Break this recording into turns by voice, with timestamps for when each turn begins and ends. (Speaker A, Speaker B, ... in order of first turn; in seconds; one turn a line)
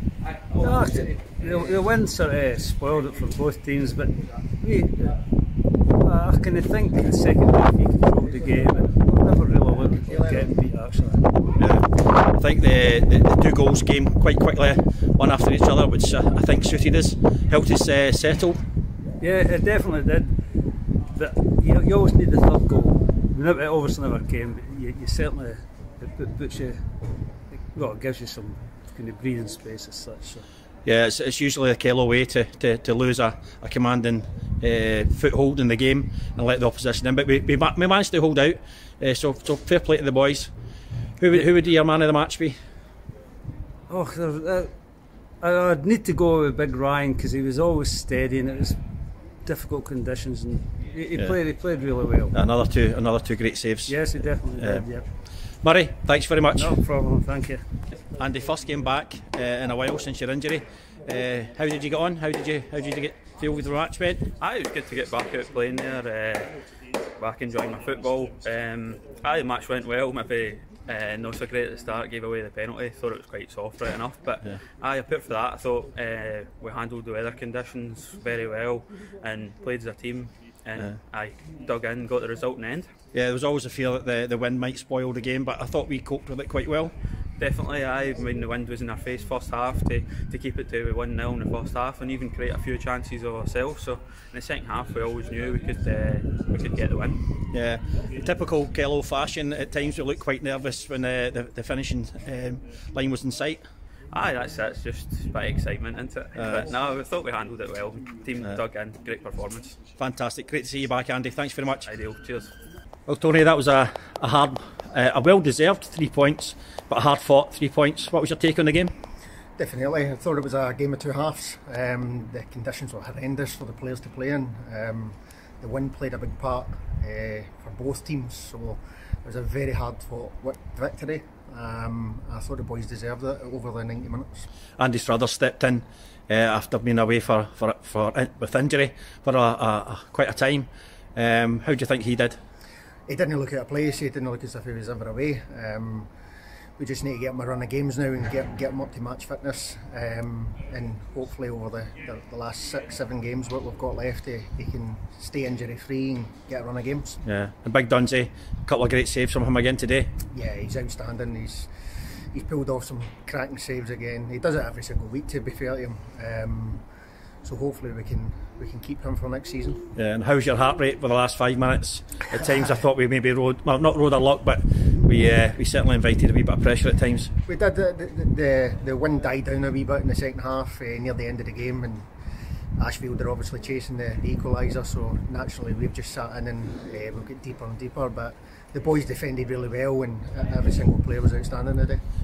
Speaker A: 0.5-5.2
Speaker A: 6.0-11.3
Speaker B: 11.6-18.6
Speaker A: 19.2-20.3
Speaker A: 21.1-26.8
Speaker A: 27.7-30.4
Speaker B: 30.9-40.5
Speaker B: 41.2-42.6
Speaker A: 43.9-44.7
Speaker A: 45.4-48.8
Speaker A: 49.5-52.4
Speaker B: 52.3-54.0
Speaker A: 53.9-55.1
Speaker B: 54.6-54.9
Speaker B: 55.6-56.8
Speaker A: 56.5-57.6
Speaker B: 58.1-64.3
Speaker C: 64.4-66.6
Speaker C: 67.2-82.9
Speaker B: 83.1-87.0
Speaker C: 87.4-97.2
Speaker B: 97.5-103.6
Speaker C: 104.1-109.8
Speaker B: 106.4-106.7
Speaker B: 110.0-111.9
Speaker C: 111.8-112.5
Speaker B: 113.1-118.9
Speaker D: 119.6-134.5
Speaker B: 134.8-142.4
Speaker D: 143.1-146.1
Speaker D: 146.8-157.2
Speaker B: 157.2-160.1
Speaker D: 160.3-161.7
Speaker D: 162.3-166.8
Speaker D: 167.4-169.8
Speaker B: 169.9-177.3
Speaker D: 177.5-182.1
Speaker D: 182.8-192.0